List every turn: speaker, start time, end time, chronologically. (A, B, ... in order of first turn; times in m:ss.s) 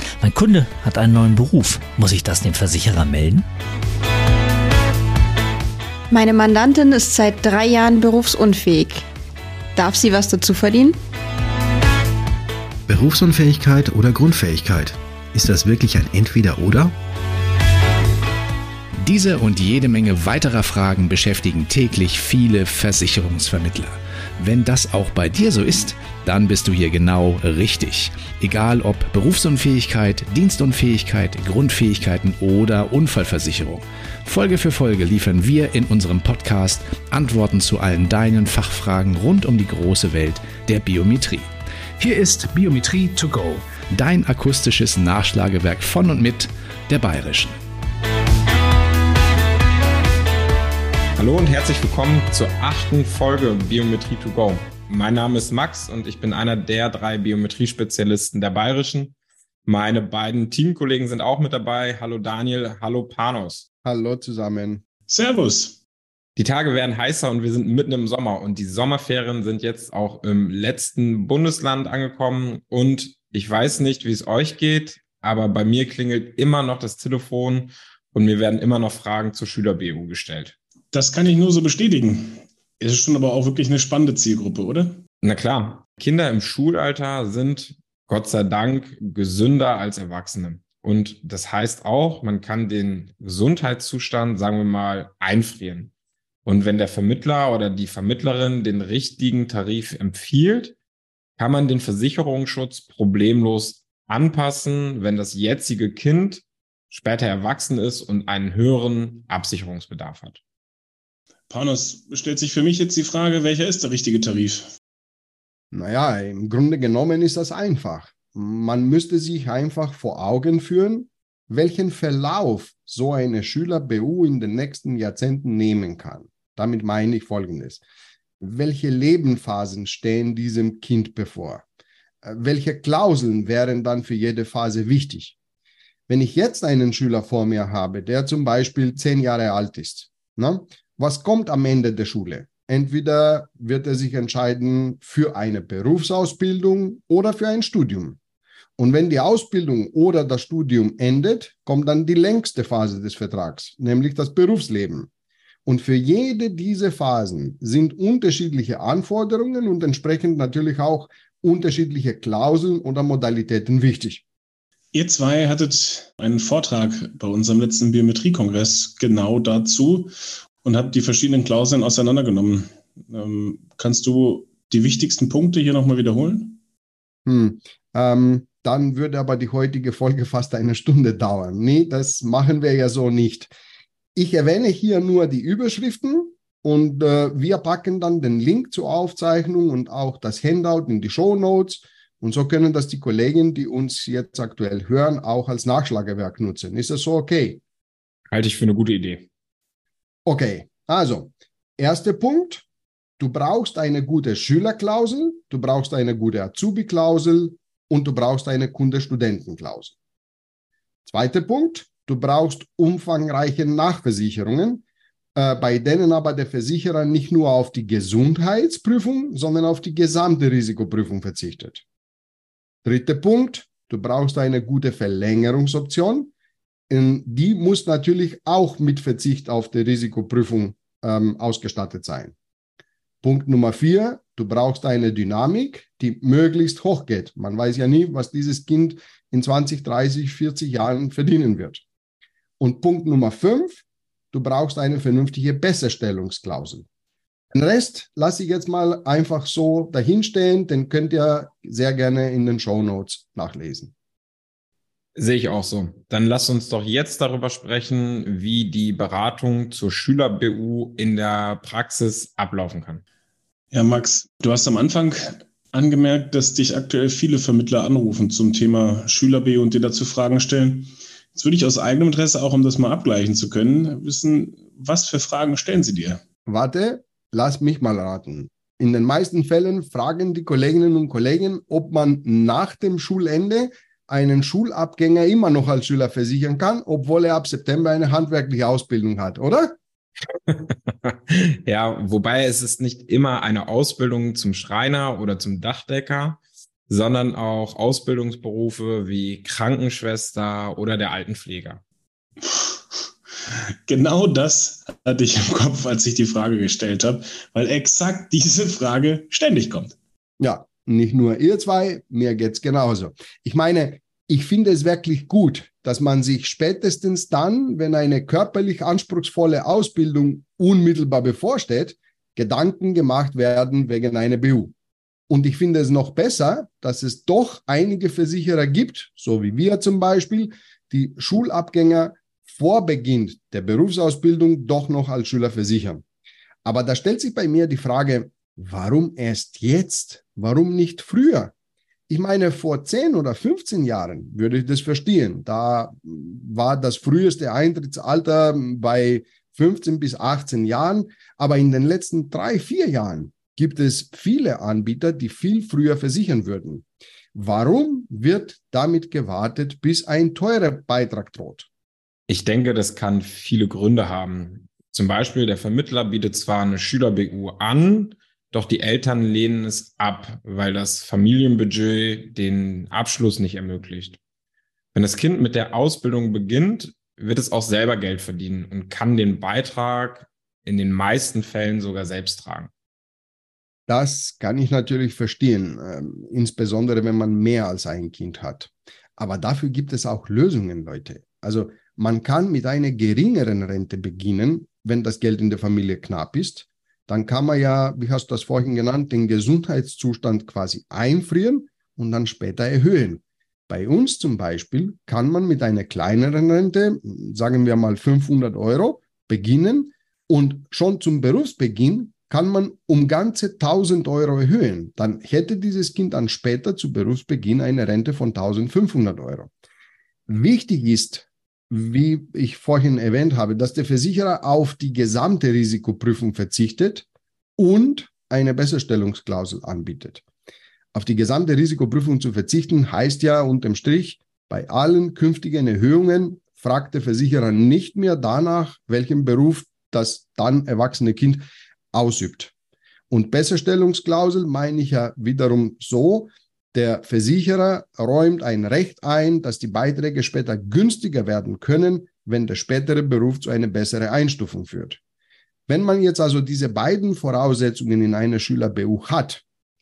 0:00.2-0:03.4 A
0:06.1-0:09.0 B
0:09.7-0:11.0 B
0:12.9-0:16.9 C
0:19.0-0:47.6 D
0:51.2-0:59.1 E
0:59.6-1:03.6 E
1:03.8-1:04.8 F
1:05.1-1:05.8 G
1:06.4-1:20.6 E
1:20.9-1:25.0 G
1:25.2-1:35.9 E
1:36.4-1:40.7 E
1:41.4-1:50.4 E
1:51.5-1:54.6 G
1:55.7-2:07.8 F
2:08.4-2:11.6 F
2:12.2-2:15.4 F
2:16.1-2:28.2 F
2:28.8-2:35.1 F
2:35.6-2:44.2 F
2:44.9-2:50.1 G
2:50.6-2:56.6 G
2:57.2-3:03.5 F
3:04.1-3:17.6 F
3:18.3-3:19.3 E
3:20.2-3:22.6 F
3:23.2-3:29.9 F
3:31.0-3:34.8 F
3:35.3-3:41.8 F
3:42.8-3:46.3 F
3:46.9-3:52.3 F
3:53.2-4:01.8 F
4:02.6-4:06.8 F
4:07.5-4:13.9 F
4:15.2-4:23.0 E
4:23.7-4:36.2 G
4:36.5-4:49.7 F
4:50.5-5:01.8 E
5:02.4-5:09.9 G
5:10.4-5:24.7 F
5:25.3-5:36.0 F
5:36.6-5:41.5 F
5:42.1-6:01.7 F
6:02.3-6:14.2 E
6:14.9-6:22.7 E
6:23.9-6:59.5 F
7:00.3-7:07.0 F
7:07.6-7:10.2 F
7:10.9-7:22.5 F
7:23.1-7:35.0 F
7:35.7-7:39.4 F